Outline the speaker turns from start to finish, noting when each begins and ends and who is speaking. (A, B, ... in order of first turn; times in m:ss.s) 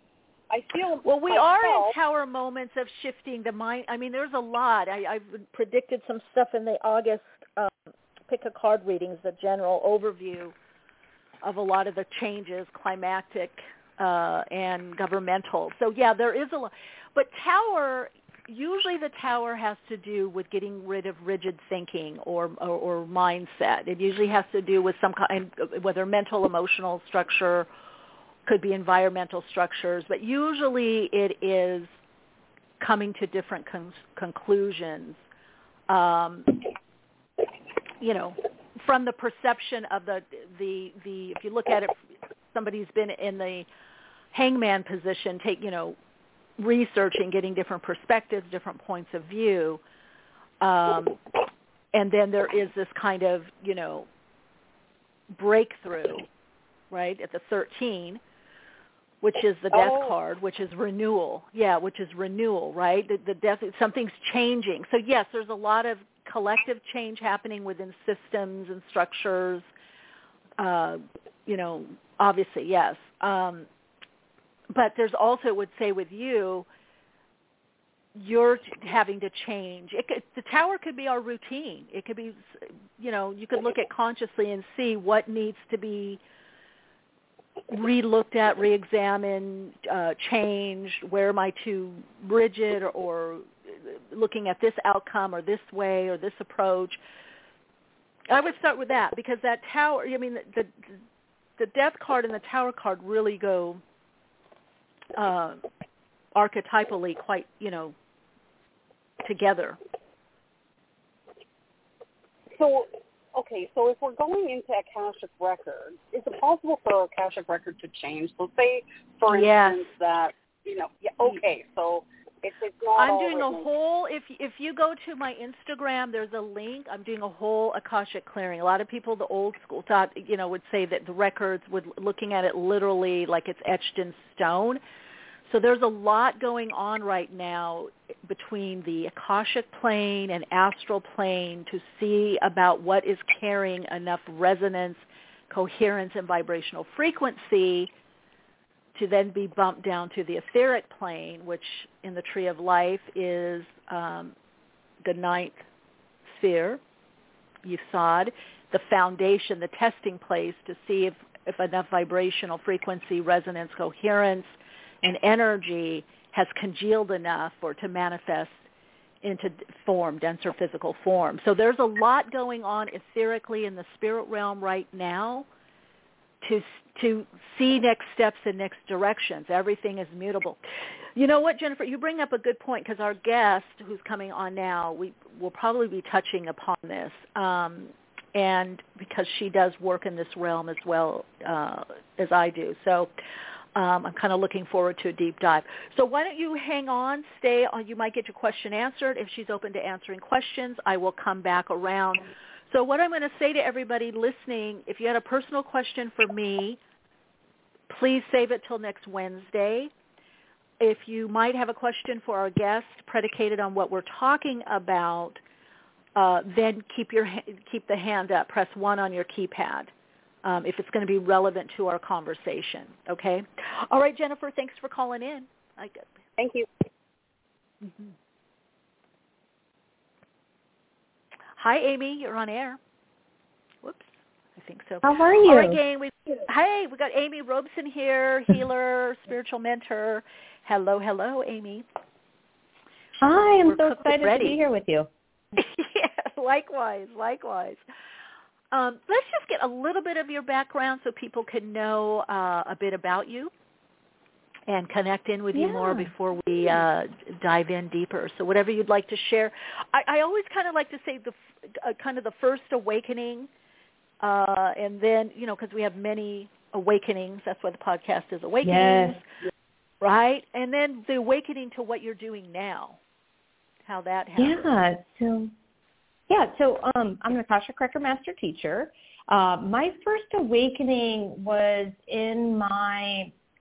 0:00.5-0:02.0 A
0:01.0-0:10.5 B
0:11.4-0:27.7 B
0:28.4-0:31.9 B
0:32.8-0:35.2 B
0:35.9-0:36.6 B
0:38.0-0:42.0 B
0:42.5-0:43.7 B
0:44.3-0:46.0 B
0:46.6-0:49.8 B
0:50.6-0:51.2 B
0:51.9-0:54.1 B
0:55.3-0:56.3 B
0:56.9-0:58.2 B
0:59.2-1:09.6 B
0:59.7-1:00.2 A
1:10.6-1:13.7 B
1:14.7-1:16.6 B
1:18.1-1:22.4 B
1:23.0-1:26.2 B
1:27.7-1:37.0 B
1:38.3-1:40.7 B
1:41.6-1:43.8 B
1:45.1-1:45.6 B
1:46.3-1:47.9 B
1:49.2-1:49.8 B
1:52.6-2:03.7 A
1:59.3-1:59.9 B
2:03.0-2:14.8 B
2:15.5-2:27.9 B
2:28.9-2:34.3 B
2:35.0-2:35.6 B
2:36.3-2:36.8 B
2:37.6-2:48.6 B
2:49.2-2:55.5 B
2:56.4-3:00.6 B
3:01.1-3:13.1 B
3:13.7-3:26.8 B
3:27.9-3:29.9 B
3:30.8-3:35.4 B
3:36.2-3:39.9 B
3:40.4-3:46.0 B
3:46.4-3:46.6 A
3:47.8-3:48.1 B
3:51.6-3:52.8 B
3:53.8-4:01.8 B
3:55.0-3:55.8 C
4:03.2-4:05.1 C
4:03.6-4:04.6 B
4:05.6-4:07.8 B
4:08.7-4:13.5 B
4:14.7-4:23.5 B
4:15.5-4:16.7 C
4:24.2-4:29.2 B
4:28.6-4:29.2 C
4:30.0-4:33.0 B
4:33.8-4:34.7 B
4:34.4-4:35.5 C
4:36.3-4:43.3 C